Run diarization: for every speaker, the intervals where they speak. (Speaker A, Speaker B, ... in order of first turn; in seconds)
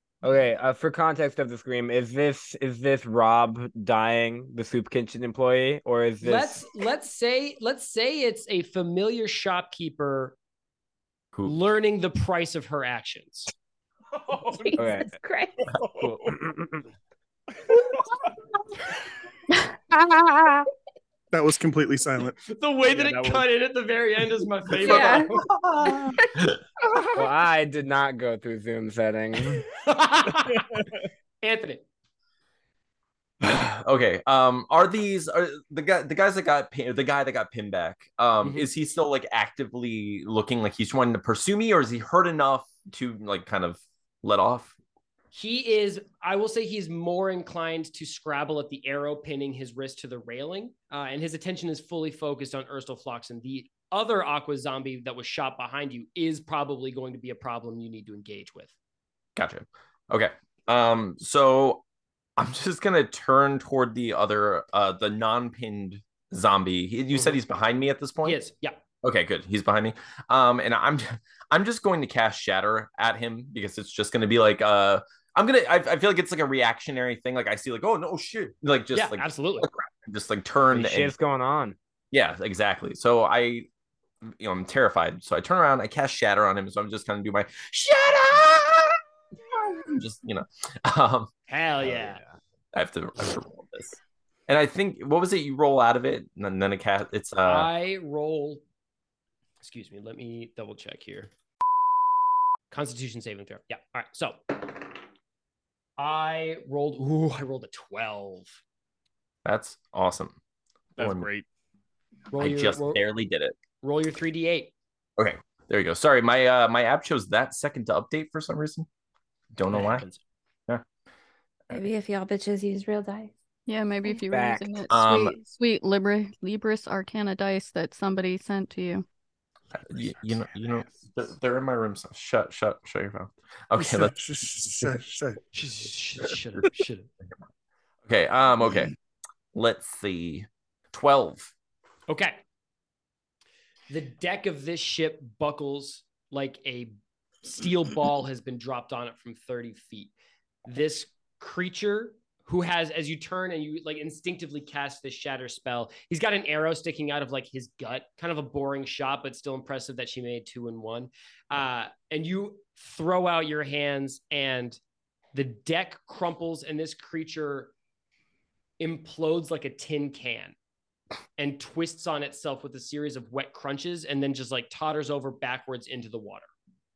Speaker A: 0.2-6.6, 14.8-15.1, 16.0-16.8, 27.2-29.6, 80.7-81.8, 91.8-92.3, 124.3-124.8
Speaker B: 6.2-10.4, 11.4-13.5, 22.5-25.4, 29.8-30.8, 31.4-31.8, 38.4-38.7, 45.3-58.7, 67.1-67.4, 68.2-68.8, 78.9-79.7, 91.5-92.2, 97.5-98.6, 99.6-101.3, 102.7-105.0, 106.0-108.6, 112.3-113.0, 113.8-114.7, 119.7-120.2, 135.5-137.1, 142.1-142.4, 143.9-150.1, 150.7-164.8, 165.3-167.7, 168.8-170.6, 171.4-176.5
Speaker C: 14.3-14.8, 15.8-16.3, 22.9-23.4, 111.0-111.5, 129.9-131.1
Speaker D: 14.4-15.6, 24.8-25.3, 25.9-26.1, 121.7-123.3
Speaker E: 21.3-22.4, 133.8-135.4
Speaker F: 33.4-44.7, 59.4-61.8, 62.4-68.4, 69.0-81.1, 82.1-83.7, 84.3-89.0, 89.7-91.3, 92.7-97.7, 109.5-110.3, 111.0-111.3, 112.4-113.6, 115.2-118.9, 119.5-120.1, 124.9-125.4, 129.8-135.0, 138.1-138.9, 139.6-141.5
Speaker G: 123.7-129.1